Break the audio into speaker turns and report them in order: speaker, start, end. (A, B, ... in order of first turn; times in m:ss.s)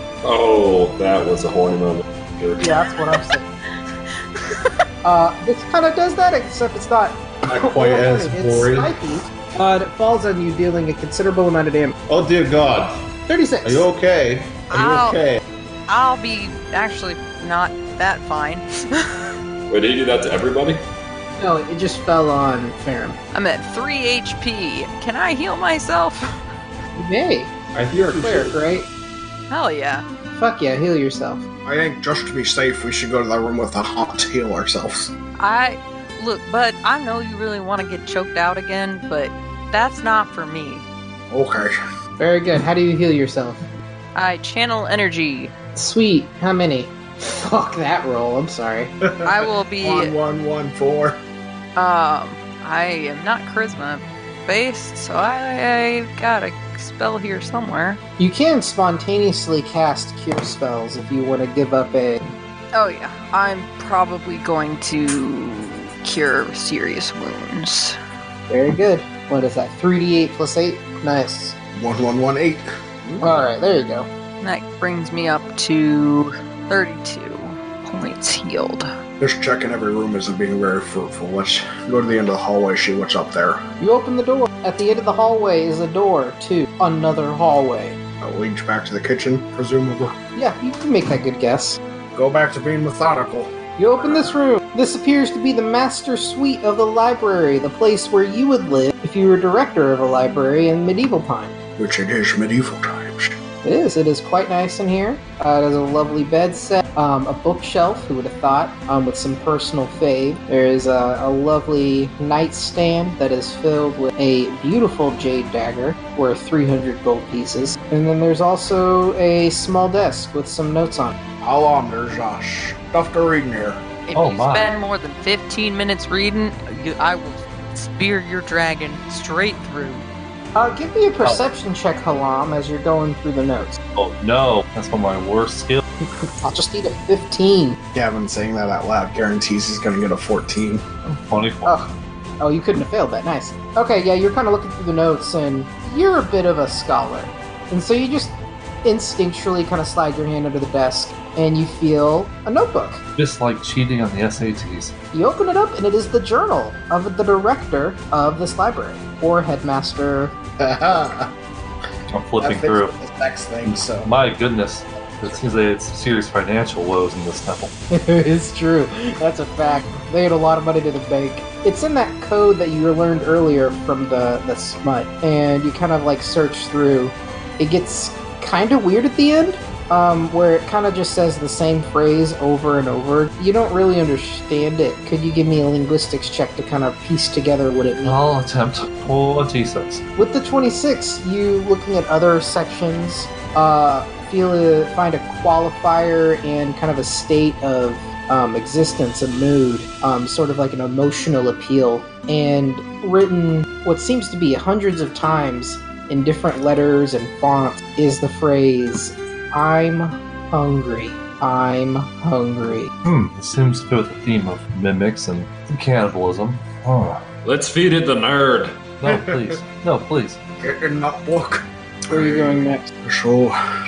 0:00.2-0:02.6 A
0:02.6-0:03.5 B
0:05.0-0:12.0 B
0:07.5-0:09.0 C
0:12.1-0:13.1 C
0:13.3-0:13.9 B
0:13.6-0:15.4 C
0:14.7-0:15.2 D
0:15.9-0:19.4 D
0:19.7-0:20.8 A
0:21.4-0:23.2 B
0:23.3-0:26.3 D
0:26.9-0:28.9 B
0:27.7-0:28.6 C
0:29.5-0:30.0 D
0:30.3-0:31.4 B
0:31.6-0:35.1 E
0:35.4-0:40.8 D
0:41.3-0:41.8 E
0:42.2-0:43.7 B
0:44.2-0:45.5 D
0:45.8-0:48.9 B
0:49.2-0:51.2 E
0:49.2-0:50.1 D
0:51.8-0:58.0 D
0:58.2-1:02.2 B
1:02.7-1:08.0 D
1:08.5-1:11.6 B
1:11.8-1:13.4 E
1:13.2-1:14.1 B
1:14.4-1:18.9 D
1:19.2-1:23.6 E
1:23.8-1:28.0 B
1:28.2-1:30.2 E
1:30.4-1:31.8 B
1:32.2-1:34.4 E
1:33.8-1:41.6 B
1:41.8-1:43.3 E
1:43.6-2:01.2 B
2:01.4-2:03.8 E
2:04.1-2:10.1 D
2:04.2-2:04.7 F
2:10.6-2:13.8 B
2:11.2-2:11.5 F
2:14.0-2:15.8 F
2:16.4-2:17.8 B
2:17.9-2:20.9 E
2:21.1-2:21.8 F
2:21.6-2:33.0 B
2:33.2-2:34.9 F
2:35.1-2:40.4 B
2:40.6-2:41.3 E
2:42.1-2:42.9 F
2:42.4-2:44.1 E
2:43.6-2:47.7 F
2:45.2-2:45.5 E
2:47.9-3:08.2 B
3:08.0-3:10.0 F
3:10.2-3:32.9 B
3:33.0-3:37.2 F
3:37.4-3:38.9 A
3:39.0-3:40.4 F
3:40.6-3:43.6 E
3:42.1-3:42.9 B